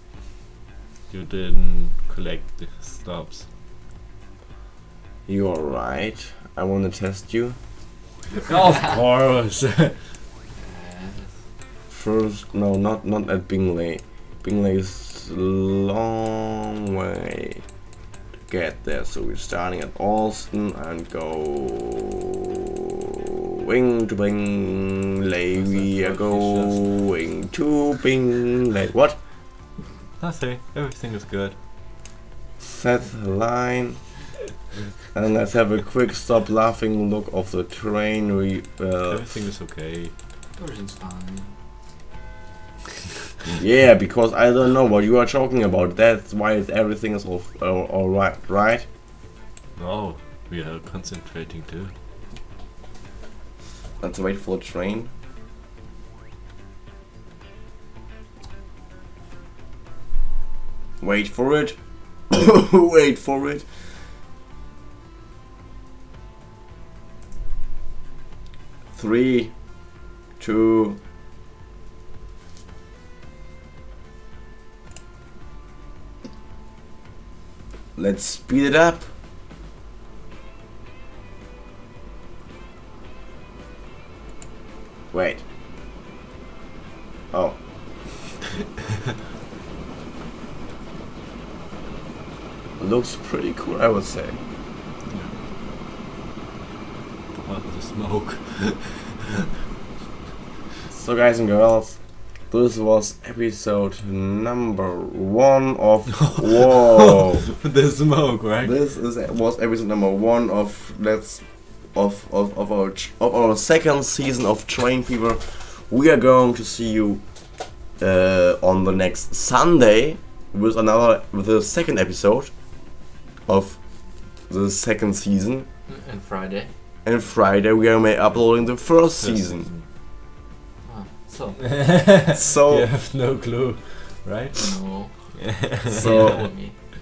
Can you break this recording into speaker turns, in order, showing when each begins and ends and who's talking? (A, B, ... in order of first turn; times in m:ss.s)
0:01.1-0:03.5 A
0:05.3-0:07.6 B
0:08.4-0:10.2 A
0:08.5-0:08.9 C
0:10.6-0:11.4 C
0:11.9-0:17.6 B
0:18.5-0:22.2 B
0:23.7-0:29.2 B
0:25.5-0:27.1 A
0:30.2-0:31.6 A
0:32.6-0:34.1 B
0:35.1-0:39.4 B
0:39.1-0:40.1 A
0:40.6-0:41.6 C
0:43.6-0:48.9 B
0:49.8-0:51.9 A
0:54.0-0:55.1 B
1:01.0-1:03.9 B
1:08.9-1:09.7 B
1:10.4-1:11.0 B
1:18.0-1:19.1 B
1:25.1-1:25.4 B
1:27.3-1:27.7 B
1:32.8-1:34.4 B
1:35.1-1:35.3 A
1:37.3-1:39.3 A
1:40.9-1:47.4 B
1:46.7-1:48.8 A
1:48.6-2:02.8 B
2:03.5-2:05.7 B
2:05.9-2:06.7 C
2:07.0-2:09.7 B
2:09.2-2:09.9 A
2:10.8-2:11.7 C
2:11.6-2:16.4 A
2:12.3-2:12.9 B
2:14.6-2:16.8 C
2:15.9-2:16.5 B